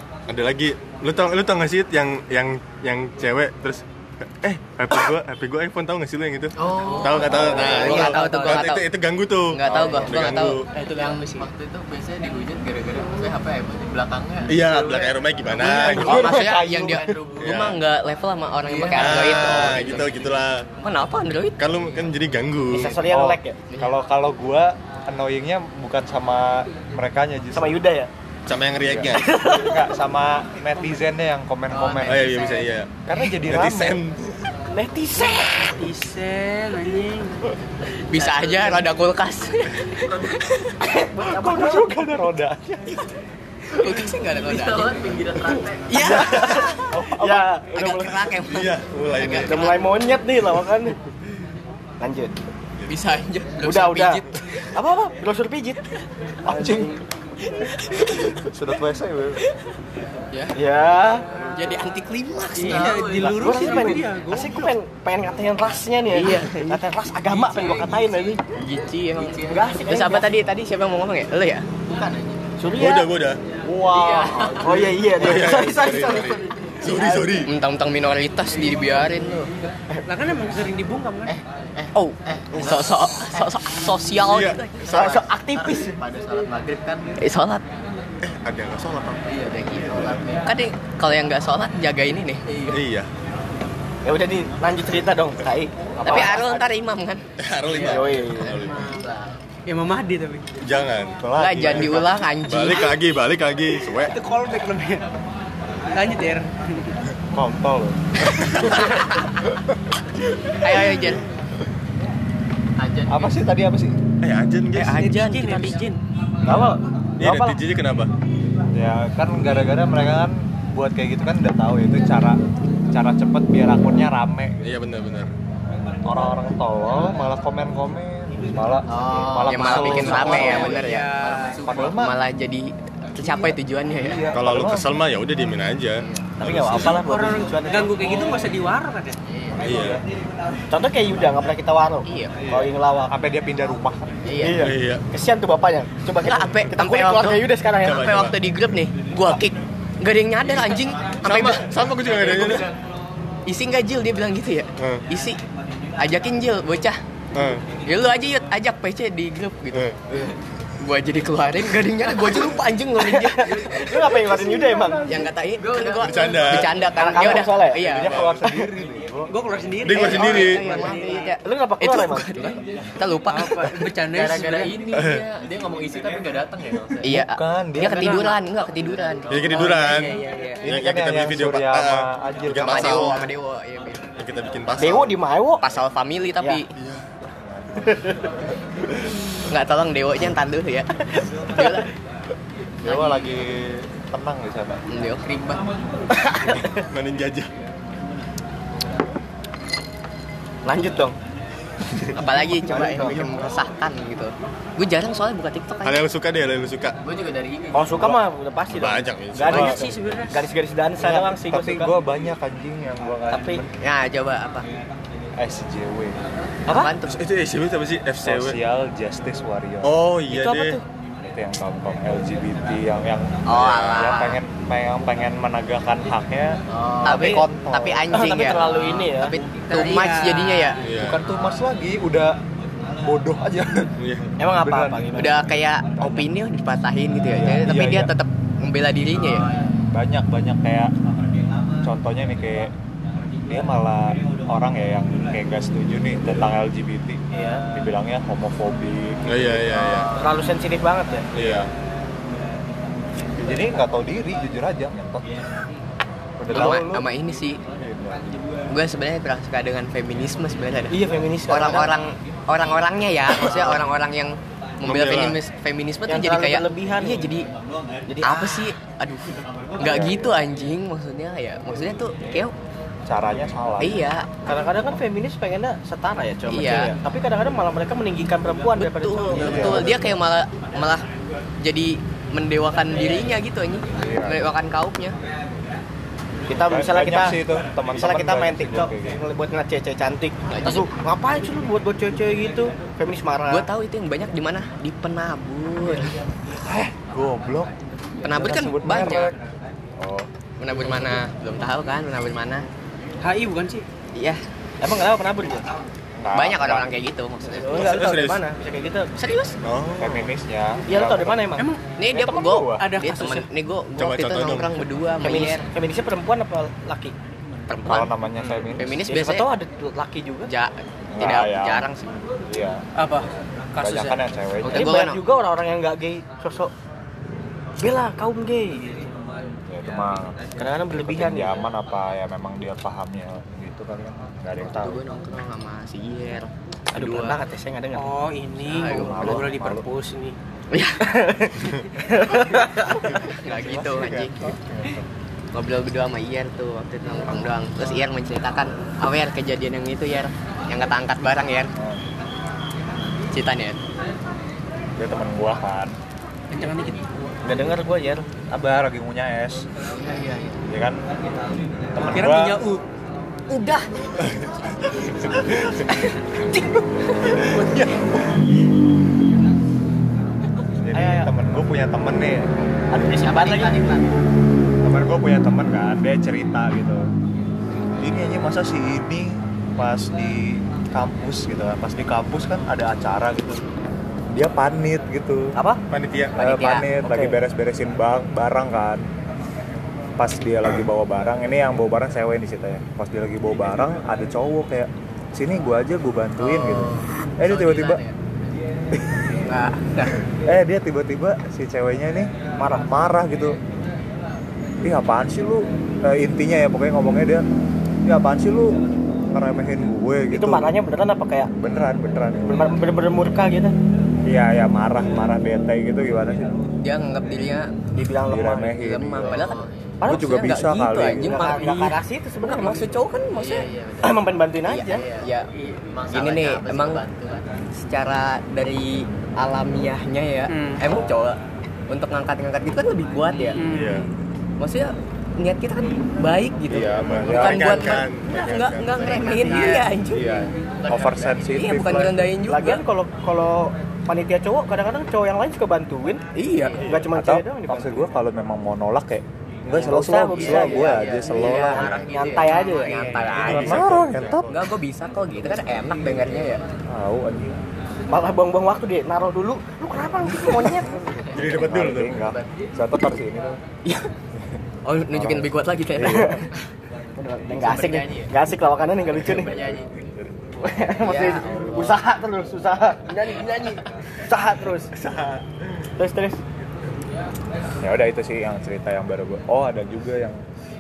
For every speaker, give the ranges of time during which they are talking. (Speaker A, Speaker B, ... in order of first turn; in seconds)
Speaker A: 0.3-10.7, 14.5-16.4, 17.4-17.8, 18.9-20.7, 21.6-23.0, 28.5-29.3, 32.0-34.5, 48.4-49.8, 72.8-73.4, 75.1-77.5, 84.2-84.7, 88.2-90.2, 92.7-93.1, 97.4-98.8, 100.6-104.2, 108.3-108.8, 114.2-115.2, 117.2-118.1, 124.6-125.3, 134.3-137.0, 139.6-140.0, 144.6-145.1, 147.8-148.4, 151.2-152.7, 154.8-155.0, 157.3-157.7, 159.7-160.3, 166.0-166.9, 167.9-168.4, 169.8-170.8, 174.9-175.2, 179.3-183.3, 184.2-185.2, 186.8-187.0, 196.8-197.5, 205.8-207.0, 208.7-209.8, 217.1-218.6, 219.8-220.8, 223.5-224.2, 230.8-231.2, 234.0-234.3, 249.3-250.1, 251.3-251.7, 264.8-265.4, 307.7-308.4, 309.6-310.3, 314.0-314.8, 365.1-365.8, 385.9-386.4, 433.6-434.1, 436.9-439.5, 453.4-454.6, 461.3-462.2, 474.9-475.4
Speaker B: 6.6-8.1, 9.7-10.1, 10.8-17.6, 18.7-20.4, 31.7-32.7, 38.2-38.8, 39.9-40.3, 44.4-46.5, 62.6-64.0, 67.3-68.4, 69.2-69.8, 71.8-72.6, 73.9-75.0, 81.3-83.6, 84.8-87.2, 89.3-90.5, 92.5-92.8, 97.7-99.4, 112.8-113.5, 128.9-131.9, 136.0-136.3, 139.2-139.6, 151.9-152.8, 165.6-166.8, 174.1-177.1, 178.3-179.7, 207.0-208.1, 226.7-227.4, 231.2-231.6, 239.1-239.9, 249.9-250.5, 359.9-360.6, 373.0-374.1, 396.4-397.1, 419.2-420.0, 423.4-427.6, 439.0-439.9, 440.7-441.7, 446.6-446.9, 450.3-452.6, 461.3-462.5, 467.6-468.4, 469.1-470.2, 471.1-472.0
Speaker C: 6.9-8.7, 10.7-11.5, 35.2-37.4, 62.5-64.7, 80.1-81.4, 98.6-99.0, 99.7-100.5, 103.9-105.1, 105.9-107.0, 114.9-116.0, 129.9-131.7, 136.8-139.2, 164.5-164.9, 169.3-171.4, 173.3-174.8, 177.9-178.3, 179.5-180.7, 209.5-210.4, 229.6-230.8, 303.2-303.9, 311.6-311.8, 312.6-313.5, 323.0-324.2, 337.9-340.4, 356.5-357.1, 362.0-362.8, 366.5-367.8, 430.5-430.8, 433.6-434.1, 439.4-439.9, 452.4-453.6
Speaker D: 7.0-8.9, 9.5-10.6, 15.6-20.1, 20.8-21.6, 38.1-40.8, 43.7-45.2, 45.9-46.9, 47.7-49.9, 52.9-54.7, 57.8-58.2, 60.3-60.6, 61.4-63.0, 66.1-66.8, 68.5-71.7, 77.5-79.5, 81.9-85.2, 87.2-87.6, 90.4-92.5, 96.0-97.2, 101.4-103.0, 110.6-111.2, 114.7-115.8, 129.5-131.1, 131.7-134.3, 142.1-142.4, 144.2-144.6, 146.2-151.8, 153.5-155.4, 156.0-157.0, 157.8-160.2, 160.8-164.2, 165.0-168.2, 169.9-173.9, 177.0-180.1, 182.6-184.1, 185.6-186.7, 189.5-191.9, 192.9-193.2, 194.9-195.6, 202.1-206.0, 213.8-214.7, 216.7-217.2, 223.5-224.4, 227.1-230.8, 235.2-239.5, 256.5-257.6, 258.7-267.5, 268.2-272.5, 273.8-274.3, 276.5-276.9, 278.8-281.1, 281.6-285.2, 290.5-290.9, 293.5-296.1, 298.2-299.3, 300.6-302.7, 304.1-304.4, 306.3-307.9, 309.2-309.6, 312.0-315.7, 317.7-318.1, 318.8-319.5, 320.5-322.3, 324.6-325.2, 334.6-337.4, 338.6-339.5, 340.7-341.0, 343.2-344.5, 345.5-351.7, 353.3-353.8, 363.5-363.9, 386.4-386.9, 397.4-398.1, 399.4-400.2, 416.8-417.9, 418.8-423.7, 424.7-425.5, 426.1-427.0, 427.7-433.6, 434.6-440.4, 441.5-442.8, 446.4-446.9, 451.3-456.6, 464.9-466.4, 471.0-471.6, 473.1-473.8
Speaker E: 15.7-17.2, 23.0-27.8, 28.8-32.3, 33.0-34.0, 41.2-43.0, 46.0-47.5, 56.5-56.9, 58.3-59.4, 73.6-75.1, 101.2-102.2, 107.3-108.6, 113.1-114.0, 118.7-122.4, 122.9-124.7, 126.0-130.8, 131.6-132.2, 133.3-134.9, 143.1-144.2, 167.8-169.3, 177.1-178.3, 180.7-183.2, 187.3-188.0, 192.8-194.8, 211.0-213.7, 215.4-216.2, 218.2-220.0, 221.3-228.3, 231.0-232.4, 233.0-233.9, 234.5-235.4, 236.0-236.3, 237.3-238.1, 239.9-240.9, 241.8-242.7, 243.5-250.1, 251.4-251.7, 253.4-255.3, 256.4-257.1, 257.8-258.4, 269.8-270.4, 273.1-274.1, 279.3-280.1, 283.9-284.4, 286.6-289.2, 296.7-297.7, 298.3-299.4, 300.0-300.3, 306.1-306.9, 310.0-311.5, 317.9-319.0, 321.1-321.9, 322.5-322.8, 323.8-325.0, 329.7-335.0, 338.9-339.9, 343.5-345.1, 351.8-352.0, 355.0-355.9, 358.5-359.7, 360.7-361.1, 361.9-362.6, 367.6-367.9, 370.8-372.5, 374.8-377.1, 378.0-383.6, 384.3-385.6, 386.4-389.0, 390.2-398.0, 400.4-402.3, 402.8-403.6, 404.8-407.4, 408.1-408.8, 409.3-410.7, 411.6-412.8, 414.3-416.6, 418.3-419.4, 420.1-421.5, 436.7-437.8, 440.1-442.4, 447.1-451.9, 453.5-454.5, 456.9-457.6, 461.5-463.6, 465.1-466.4, 477.8-480.4
Speaker F: 22.7-23.6, 27.5-28.1, 29.1-29.9, 34.7-35.9, 40.8-42.1, 46.0-48.3, 49.3-51.0, 52.0-52.4, 53.6-55.8, 56.5-57.0, 60.5-61.3, 63.2-68.4, 69.5-70.3, 72.6-73.1, 74.6-77.4, 84.9-86.0, 94.0-96.6, 97.8-98.7, 116.5-117.6, 136.4-138.1, 140.7-143.1, 144.4-148.2, 163.0-165.3, 166.9-167.9, 168.4-168.7, 171.4-172.5, 184.8-185.6, 187.8-188.2, 196.1-196.8, 200.7-201.2, 202.5-203.3, 207.7-211.9, 213.3-213.6, 216.7-216.9, 220.3-220.8, 228.1-229.4, 234.4-235.5, 247.4-247.6, 250.2-251.3, 260.9-261.9, 266.1-267.3, 268.1-268.7, 274.5-280.1, 286.5-287.4, 288.0-293.7, 298.8-299.2, 304.8-305.7, 307.6-309.1, 310.9-312.7, 315.2-317.1, 319.1-320.5, 324.7-326.7, 327.8-329.1, 330.6-331.5, 336.9-338.1, 341.0-343.2, 357.4-358.3, 370.9-371.3, 372.9-373.8, 385.6-385.8, 387.0-387.4, 402.6-402.9, 410.3-411.5, 412.5-413.8, 417.9-418.8, 421.1-422.9, 424.0-425.0, 442.5-446.2, 446.9-448.1, 449.7-453.3, 458.1-461.2, 467.2-469.7, 470.6-473.5, 474.2-474.9, 476.0-476.4